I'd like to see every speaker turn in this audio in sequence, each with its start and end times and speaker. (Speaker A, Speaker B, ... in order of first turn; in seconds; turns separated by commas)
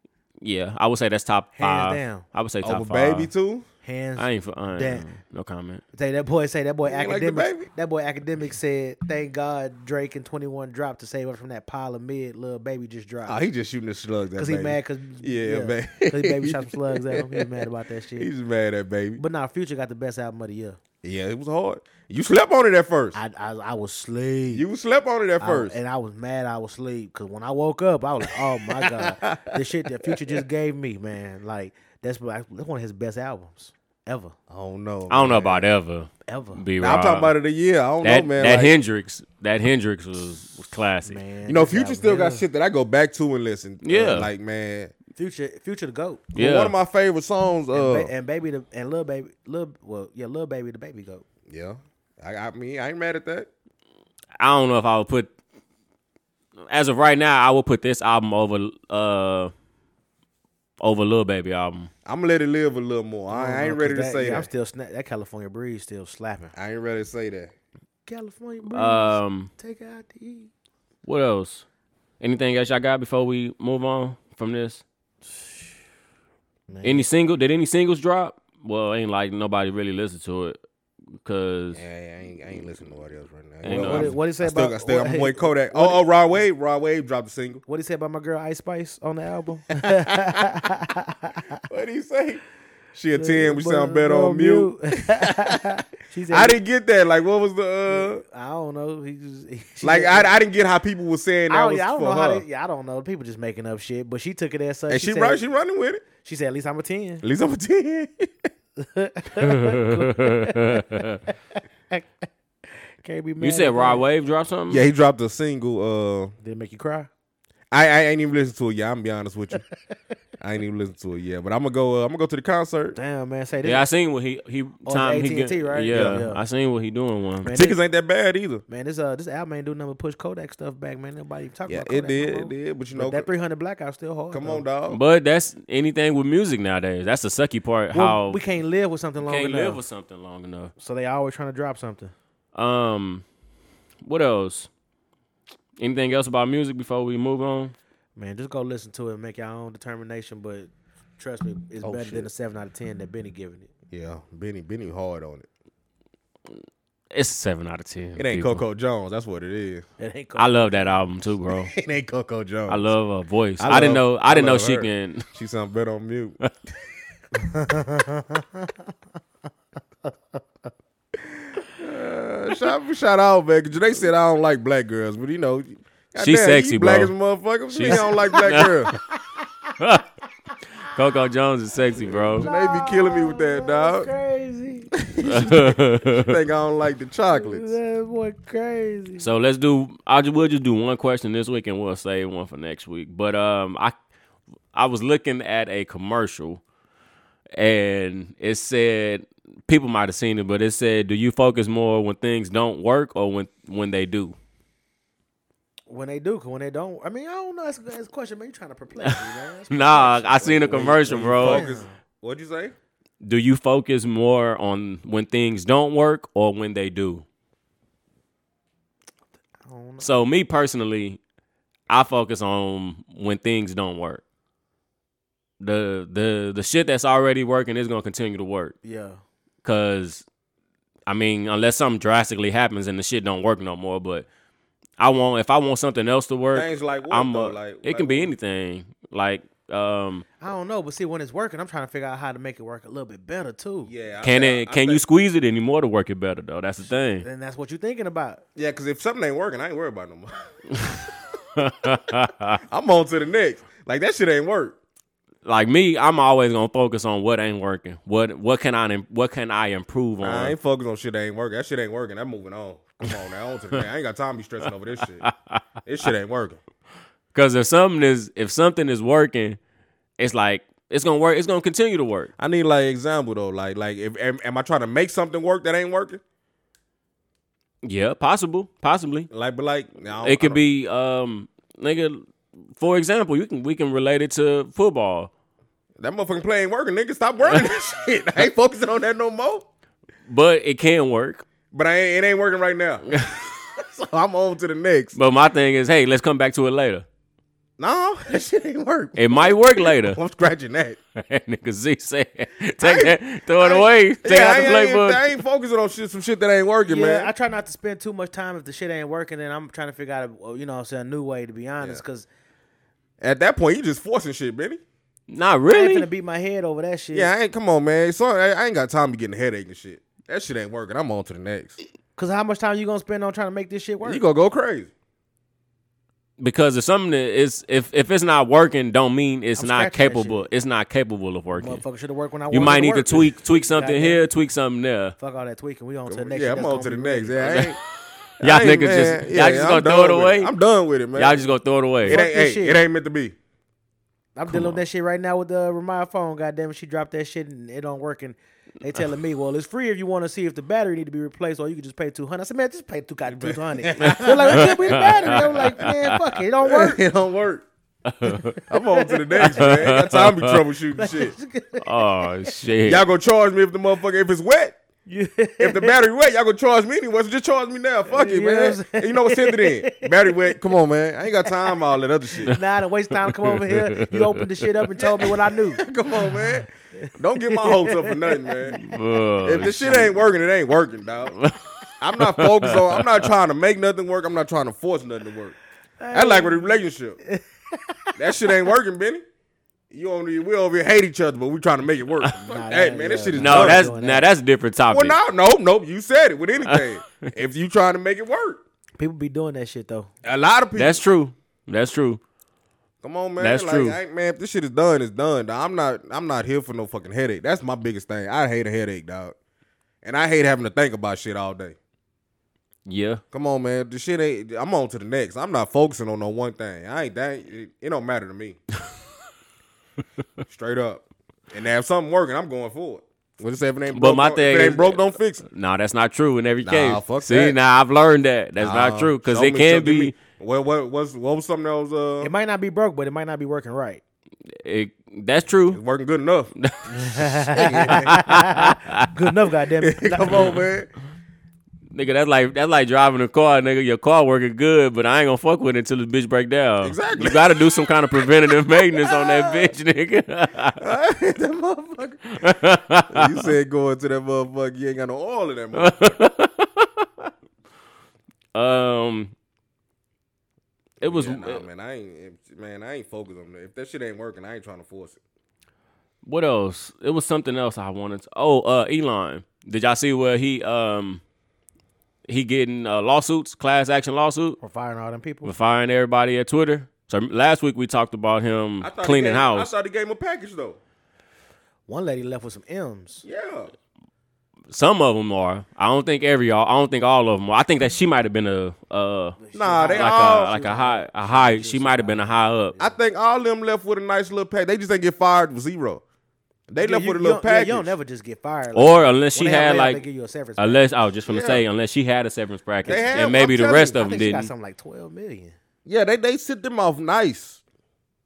Speaker A: 0.4-3.3, Speaker B: 1.6-2.2, Speaker C: 2.6-3.7, Speaker B: 3.8-5.1, Speaker A: 4.2-5.8, Speaker B: 5.9-13.4, Speaker C: 6.9-7.7, Speaker C: 13.2-19.2, Speaker B: 14.4-18.3, Speaker B: 19.2-20.8, Speaker C: 21.0-23.2, Speaker B: 23.1-24.6, Speaker C: 24.5-25.8, Speaker B: 25.4-34.4, Speaker C: 28.2-30.4, Speaker C: 34.5-35.7, Speaker A: 35.1-37.3, Speaker B: 36.3-36.6, Speaker C: 36.8-38.7, Speaker A: 38.0-41.2, Speaker B: 41.0-42.5, Speaker C: 41.5-44.9, Speaker A: 43.8-44.3, Speaker B: 45.2-46.3, Speaker C: 46.4-48.1, Speaker A: 46.4-46.8, Speaker B: 47.7-51.2, Speaker C: 51.5-53.5, Speaker A: 54.4-55.3, Speaker A: 56.7-59.5, Speaker A: 60.8-61.9, Speaker C: 62.0-64.5, Speaker B: 63.3-66.5, Speaker C: 66.5-67.5, Speaker B: 68.1-70.5, Speaker A: 68.7-69.5, Speaker A: 71.0-71.7, Speaker A: 72.2-74.8, Speaker B: 76.7-77.1, Speaker A: 76.8-80.6, Speaker A: 81.2-81.8, Speaker C: 81.7-87.6, Speaker A: 83.6-84.2, Speaker B: 83.7-86.0, Speaker B: 87.7-91.6, Speaker C: 89.9-90.4, Speaker C: 91.7-92.4, Speaker C: 92.9-95.6, Speaker B: 93.2-96.6, Speaker C: 96.3-98.2, Speaker B: 97.9-100.4, Speaker C: 99.8-102.5, Speaker B: 101.5-105.4, Speaker C: 104.9-106.0, Speaker B: 106.2-107.2, Speaker C: 107.2-108.5, Speaker B: 108.8-111.3, Speaker A: 109.4-111.2, Speaker B: 113.0-114.0, Speaker A: 113.4-114.8, Speaker C: 114.7-116.3, Speaker B: 116.4-117.1, Speaker C: 117.7-119.6, Speaker C: 120.4-123.0, Speaker B: 123.0-123.9, Speaker A: 123.6-127.5, Speaker B: 124.9-126.4, Speaker C: 125.9-126.2, Speaker B: 127.4-127.8, Speaker C: 127.5-128.6, Speaker B: 128.7-134.7, Speaker C: 131.7-133.3, Speaker C: 134.3-135.0, Speaker A: 134.9-138.4, Speaker B: 137.9-139.8, Speaker A: 139.2-140.7, Speaker B: 140.8-142.1, Speaker A: 142.6-143.2, Speaker A: 144.0-144.7, Speaker A: 145.8-147.8, Speaker B: 148.2-153.7, Speaker C: 151.8-152.3, Speaker C: 153.9-155.5, Speaker A: 157.1-158.6, Speaker C: 158.2-159.8, Speaker B: 160.0-161.0, Speaker A: 160.4-161.7, Speaker C: 161.7-162.9, Speaker A: 162.7-165.3, Speaker C: 163.6-166.4, Speaker B: 163.7-164.0, Speaker B: 167.4-168.7, Speaker C: 171.7-178.9, Speaker A: 176.2-177.1, Speaker A: 177.7-178.9, Speaker B: 177.9-179.7, Speaker A: 179.8-180.1, Speaker A: 180.8-182.5, Speaker C: 182.0-184.1, Speaker B: 182.4-184.9, Speaker C: 184.9-187.7, Speaker A: 185.2-186.4, Speaker B: 187.3-189.3, Speaker A: 189.2-193.9, Speaker A: 194.7-196.6, Speaker A: 197.6-204.4, Speaker B: 205.9-211.9, Speaker A: 209.7-211.7, Speaker C: 210.4-212.8, Speaker A: 213.2-217.2, Speaker B: 219.7-220.1, Speaker A: 220.0-221.2, Speaker A: 221.9-224.2, Speaker A: 225.6-228.8, Speaker B: 228.8-229.2, Speaker A: 229.6-230.2, Speaker A: 231.1-234.3, Speaker A: 235.0-240.2, Speaker C: 236.5-238.3, Speaker B: 240.4-243.9, Speaker C: 243.8-245.0, Speaker A: 244.2-247.3, Speaker B: 247.2-248.4, Speaker C: 248.6-250.9, Speaker A: 251.6-252.6, Speaker C: 252.7-254.8, Speaker A: 255.4-260.6, Speaker C: 260.2-265.3, Speaker A: 265.2-265.6, Speaker C: 265.9-266.6, Speaker A: 267.3-269.6, Speaker A: 270.2-272.3, Speaker C: 272.4-276.2, Speaker A: 277.8-279.3, Speaker C: 279.3-280.6, Speaker A: 280.2-282.2, Speaker A: 282.8-285.3, Speaker C: 286.0-289.7, Speaker A: 290.3-291.4, Speaker C: 291.7-293.1, Speaker A: 293.1-293.4, Speaker C: 293.8-295.1, Speaker A: 295.1-297.1, Speaker C: 297.8-301.0, Speaker A: 299.2-300.2, Speaker A: 301.2-305.4, Speaker C: 302.8-307.3, Speaker B: 306.9-312.3, Speaker C: 313.2-314.8, Speaker A: 315.3-316.1, Speaker B: 315.7-317.3, Speaker C: 317.1-321.8, Speaker B: 322.2-324.2, Speaker C: 324.0-324.9, Speaker A: 326.4-331.8, Speaker B: 329.6-330.5, Speaker B: 331.6-334.2, Speaker A: 332.5-335.1, Speaker B: 335.2-337.4, Speaker C: 336.1-337.8, Speaker A: 337.4-337.8, Speaker A: 338.4-340.5, Speaker C: 338.4-341.4, Speaker A: 341.1-342.2, Speaker C: 342.0-343.4, Speaker B: 342.1-342.8, Speaker B: 344.4-357.0, Speaker A: 344.5-344.8, Speaker C: 353.3-355.9, Speaker A: 354.0-356.1, Speaker C: 356.6-357.6, Speaker A: 358.1-358.6, Speaker B: 358.6-359.7, Speaker C: 358.7-361.4, Speaker A: 359.4-360.6, Speaker B: 361.0-362.5, Speaker A: 361.8-363.0, Speaker C: 362.9-364.8, Speaker B: 365.1-366.0, Speaker C: 365.6-372.6, Speaker B: 368.1-370.6, Speaker B: 372.5-375.9, Speaker A: 373.1-375.1, Speaker C: 375.2-378.8, Speaker B: 377.0-379.0, Speaker A: 378.8-380.2, Speaker C: 379.4-381.4, Speaker C: 382.0-385.6, Speaker A: 382.2-383.1, Speaker B: 386.0-388.7, Speaker C: 386.1-387.2, Speaker C: 388.2-389.2, Speaker C: 389.9-393.9, Speaker B: 392.3-394.3, Speaker A: 393.4-395.2, Speaker C: 394.9-398.6, Speaker A: 396.7-397.3, Speaker B: 399.0-400.1, Speaker C: 400.2-401.0, Speaker A: 400.8-402.2, Speaker C: 403.0-409.4, Speaker A: 403.4-404.0, Speaker C: 410.0-411.8, Speaker A: 412.9-413.2, Speaker C: 413.3-418.6, Speaker C: 420.5-425.4, Speaker A: 423.9-430.2, Speaker C: 426.6-427.6, Speaker C: 428.6-432.3, Speaker B: 432.2-434.0, Speaker A: 434.6-435.8, Speaker C: 435.7-436.5, Speaker A: 436.6-439.1, Speaker B: 437.0-440.5, Speaker C: 437.4-438.3, Speaker C: 439.8-440.9, Speaker A: 441.9-450.9, Speaker C: 446.8-449.7, Speaker C: 450.8-452.3, Speaker A: 452.4-453.5, Speaker C: 453.1-456.2, Speaker A: 455.7-457.3, Speaker A: 458.6-459.3, Speaker C: 461.0-465.2, Speaker A: 461.0-461.7, Speaker A: 466.2-471.2, Speaker A: 472.3-474.6, Speaker B: 474.6-475.5, Speaker A: 475.4-479.7, Speaker C: 478.8-480.8, Speaker B: 481.9-483.2, Speaker C: 483.2-483.7, Speaker A: 484.7-489.4, Speaker B: 489.4-493.0, Speaker C: 489.5-490.6, Speaker A: 489.9-492.8, Speaker C: 492.8-496.0, Speaker C: 496.7-497.9, Speaker B: 496.8-500.9, Speaker A: 498.7-500.0, Speaker A: 500.6-504.5, Speaker C: 501.3-501.6, Speaker C: 502.9-504.1, Speaker B: 502.9-505.6, Speaker C: 505.9-507.6